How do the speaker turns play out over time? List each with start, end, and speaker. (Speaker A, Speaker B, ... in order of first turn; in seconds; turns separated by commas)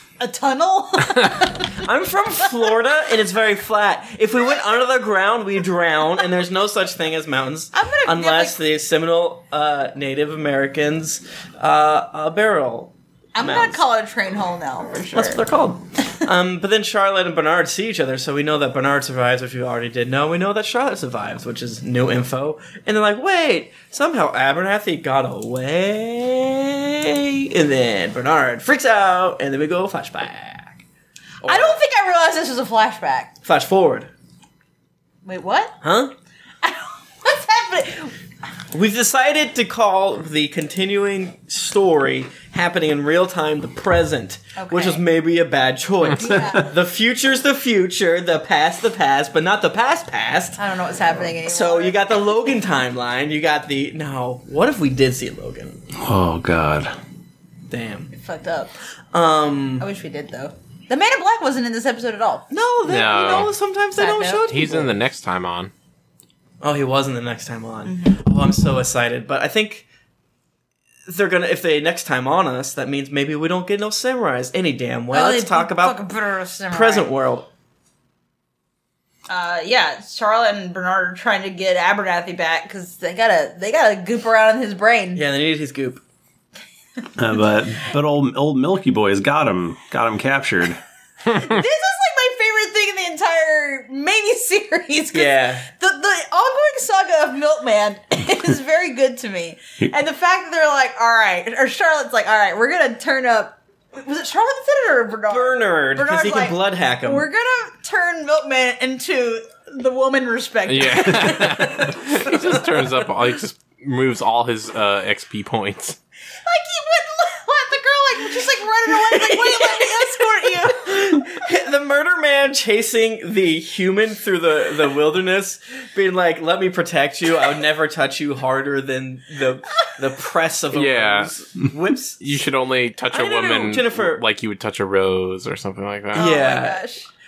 Speaker A: 0.2-1.8, Speaker B: 1.8-13.8, Speaker A: 7.7-8.6, Speaker A: 13.3-15.4, Speaker B: 15.1-30.8, Speaker B: 31.4-31.8, Speaker A: 31.4-33.3, Speaker B: 33.4-34.1, Speaker A: 35.2-35.8, Speaker B: 35.8-36.1, Speaker A: 36.6-38.1, Speaker B: 38.7-50.6, Speaker A: 44.5-45.0, Speaker A: 46.1-46.7, Speaker C: 46.4-46.6, Speaker A: 50.6-52.0, Speaker B: 51.4-55.8, Speaker C: 56.0-56.9, Speaker B: 57.7-58.1, Speaker A: 58.1-58.7, Speaker B: 59.1-59.9, Speaker A: 59.8-62.5, Speaker B: 62.5-64.9, Speaker D: 62.8-63.5, Speaker A: 64.0-64.5, Speaker D: 64.5-65.7, Speaker B: 66.6-69.8, Speaker A: 67.9-68.2, Speaker B: 71.1-76.0, Speaker A: 75.1-77.1, Speaker B: 76.7-77.5, Speaker A: 79.3-85.2, Speaker B: 85.1-86.0, Speaker C: 87.2-90.8, Speaker A: 91.3-111.8, Speaker B: 95.1-95.7, Speaker B: 105.3-107.3, Speaker D: 110.7-116.0, Speaker B: 111.4-111.9, Speaker A: 116.4-121.2, Speaker B: 118.9-132.2, Speaker D: 130.7-131.3, Speaker D: 132.2-136.4, Speaker B: 133.1-134.2, Speaker B: 136.1-136.8, Speaker A: 136.1-137.1